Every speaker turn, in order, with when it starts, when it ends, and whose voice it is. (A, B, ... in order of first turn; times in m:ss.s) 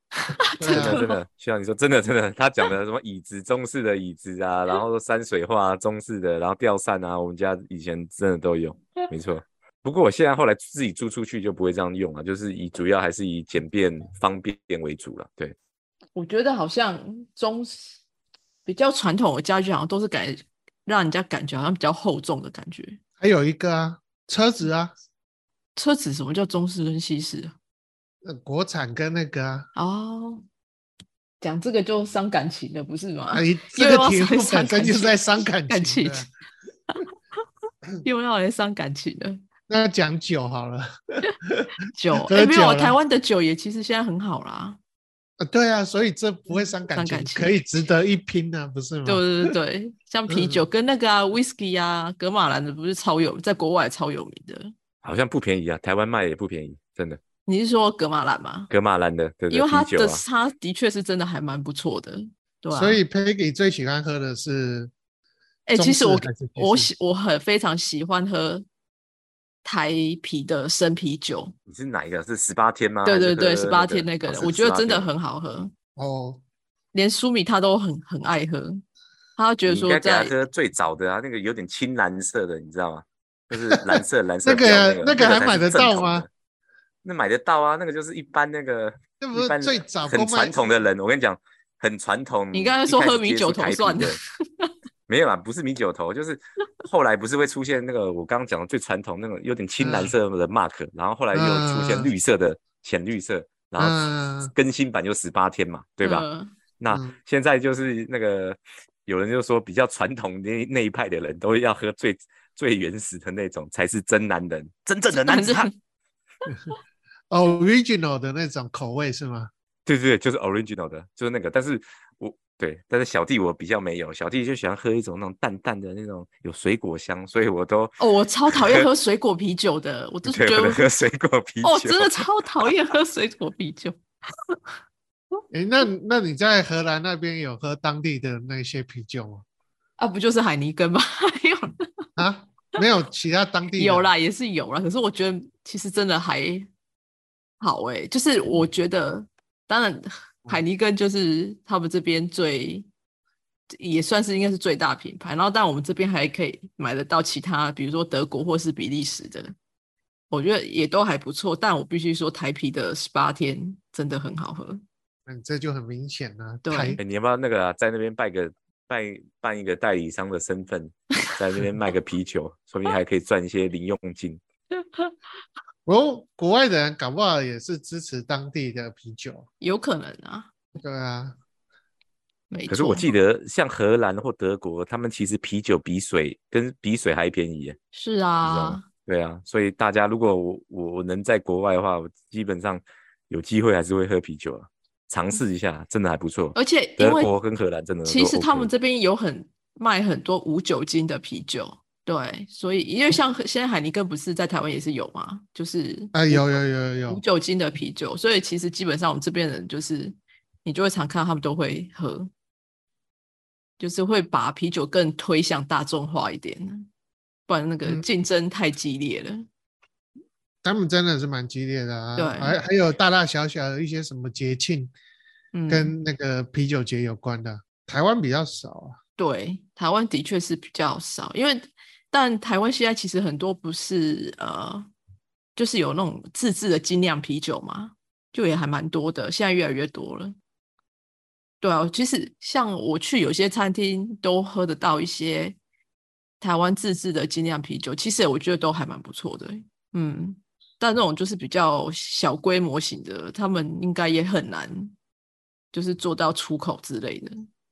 0:00.3-0:01.2 A
0:00.6-0:01.0 B
0:00.6-0:15.6 C
0:16.1-0:17.9 A
0:18.6-0:23.0 A
0:23.2-0:24.9 B
0:25.8-0:27.5 A
0:28.2-0:29.7 B
0:29.8-0:30.4 A
0:31.4-0:36.3 A
0:33.3-0:36.3 B
0:38.0-0:39.4 A
0:39.7-0:41.7 B
0:41.9-0:44.8 A
0:42.2-0:43.0 B
0:45.4-0:49.5 B
0:46.9-0:47.6 A
0:49.0-0:54.7 A
0:50.3-0:50.6 B
0:55.0-0:57.2 C
0:57.4-0:58.7 A
0:58.7-1:00.2 C
0:59.5-1:03.0 A
1:02.7-1:04.9 B
1:05.7-1:08.6 A
1:05.7-1:06.9 B
1:09.6-1:11.5 A
1:11.7-1:15.1 C
1:13.0-1:15.7 A
1:16.0-1:16.4 B
1:16.9-1:18.8 A
1:19.4-1:20.3 A
1:19.7-1:26.3 C
1:24.4-1:26.2 B
1:27.0-1:34.2 C
1:29.2-1:30.6 B
1:32.5-1:34.7 A
1:35.1-1:46.2 C
1:39.8-1:40.1 B
1:41.3-1:42.1 B
1:43.8-1:44.5 B
1:46.0-1:46.5 A
1:46.8-1:55.7 C
1:46.9-1:47.1 B
1:55.1-1:55.7 A
1:57.3-1:59.5 B
1:59.8-2:08.0 C
2:08.0-2:10.9 A
2:08.5-2:08.9 C
2:10.2-2:12.7 C
2:11.6-2:13.9 A
2:15.5-2:19.4 B
2:20.0-2:22.0 A
2:22.2-2:24.1 B
2:23.8-2:26.7 A
2:27.6-2:32.9 A
2:33.8-2:39.5 A
2:40.3-2:44.8 A
2:45.3-2:47.0 B
2:46.6-2:47.0 A
2:47.0-2:54.4 C
2:54.7-2:55.1 A
2:55.8-2:59.5 B
2:59.6-3:00.5 A
3:00.8-3:01.4 B
3:02.5-3:03.1 A
3:02.7-3:07.8 C
3:07.9-3:08.8 A
3:08.4-3:18.7 C
3:16.5-3:17.3 A
3:18.0-3:32.3 A
3:26.1-3:27.2 B
3:33.8-3:36.9 A
3:37.5-3:39.4 A
3:40.6-3:44.9 B
3:42.2-3:42.6 A
3:45.5-3:45.9 A
3:45.7-3:49.0 B
3:49.2-3:54.9 A
3:55.6-4:00.3 A
4:01.6-4:05.6 A
4:06.4-4:14.9 A
4:15.7-4:17.4 A